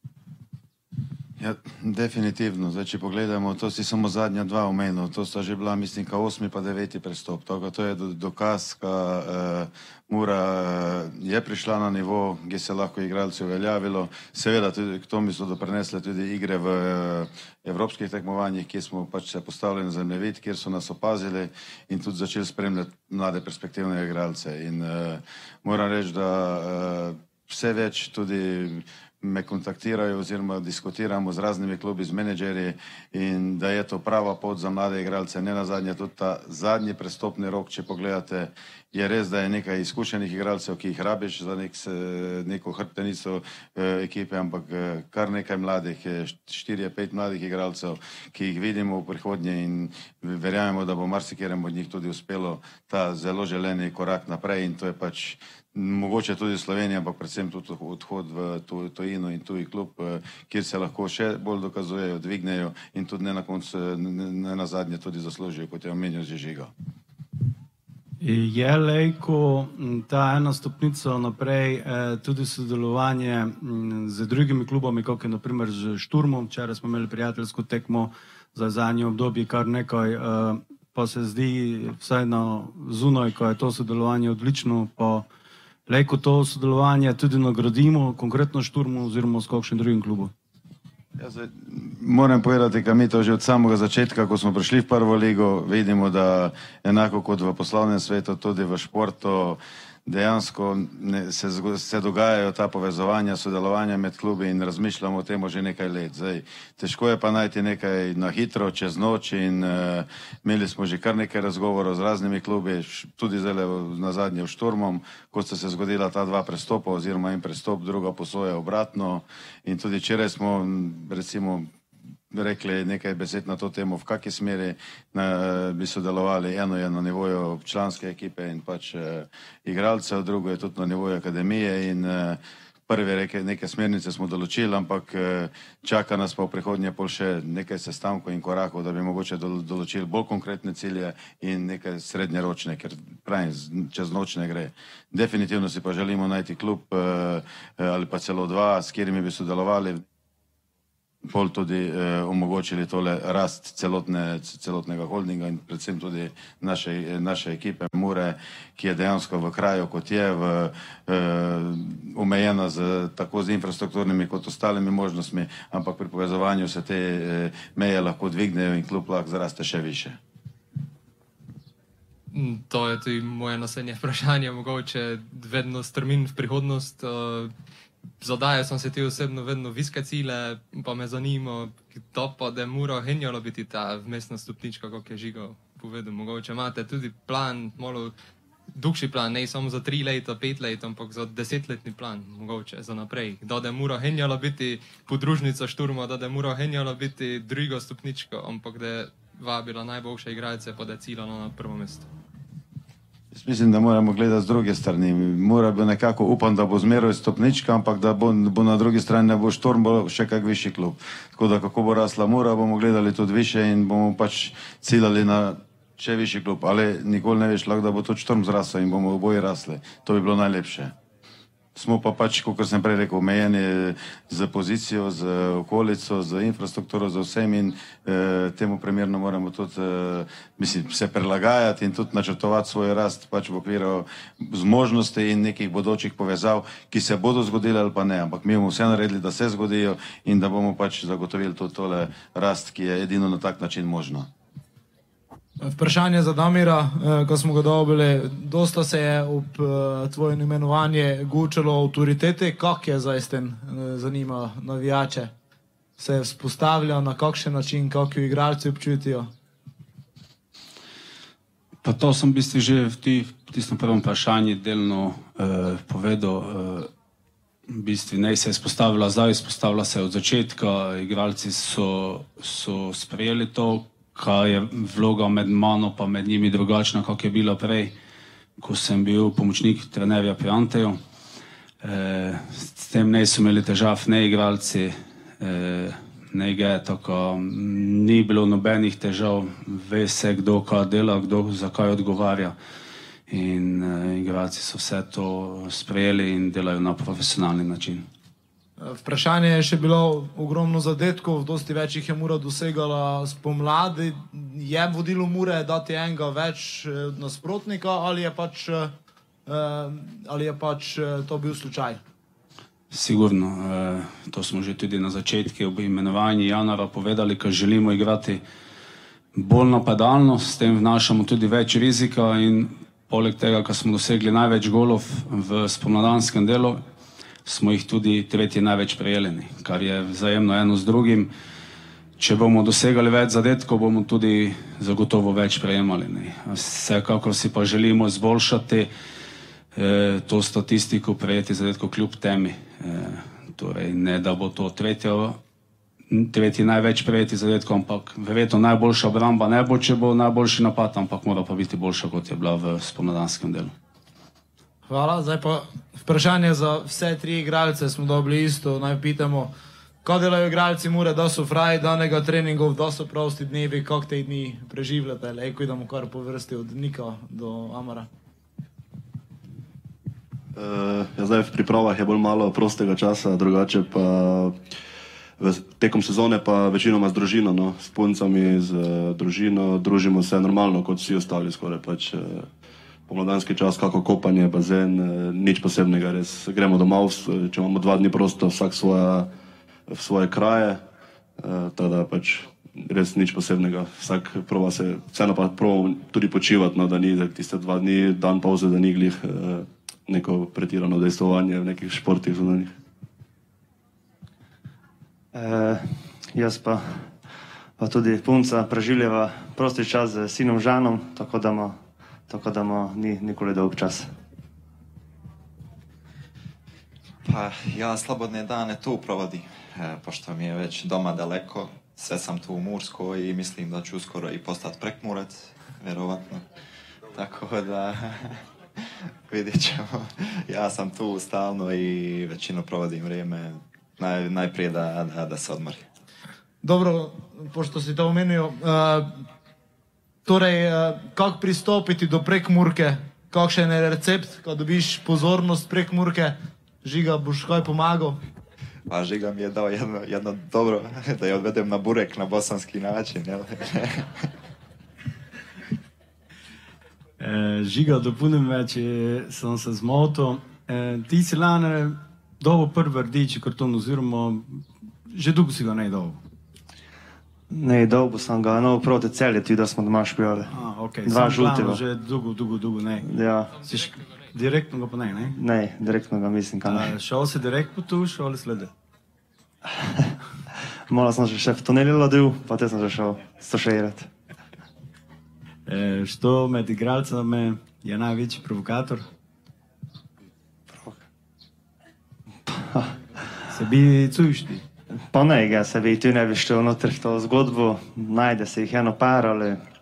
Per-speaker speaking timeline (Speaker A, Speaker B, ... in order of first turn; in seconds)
Speaker A: 1.4-66.7, 91.2-121.7, 122.3-150.0, 151.2-170.2, 203.3-220.9, 221.8-244.3
Speaker B: 68.2-85.2, 85.9-90.3, 457.2-466.2, 470.5-473.1, 473.6-475.4, 476.6-478.7, 485.7-489.1, 493.5-494.6
Speaker C: 172.3-177.5, 178.2-188.1, 188.7-202.1
Speaker D: 245.6-255.3, 256.0-259.3, 298.8-308.9, 309.5-312.0, 354.9-359.5, 360.0-368.1, 436.6-439.2, 440.2-448.2
Speaker E: 261.8-266.9, 267.7-277.9, 278.6-281.0, 281.8-292.6, 293.3-298.1, 312.9-318.4, 319.4-326.8, 327.4-331.3, 332.2-338.9, 339.8-345.4, 346.1-353.7
Speaker F: 370.6-374.6, 375.4-382.5, 383.1-389.3, 389.9-390.8, 391.4-402.7
Speaker G: 405.3-407.1, 407.8-414.1, 467.5-470.5, 471.1-471.8, 473.0-473.5, 475.4-476.9, 479.8-480.1, 480.9-484.1, 490.7-491.0, 492.5-492.9, 495.1-499.6
Speaker H: 417.2-426.4, 427.1-435.9, 448.9-454.3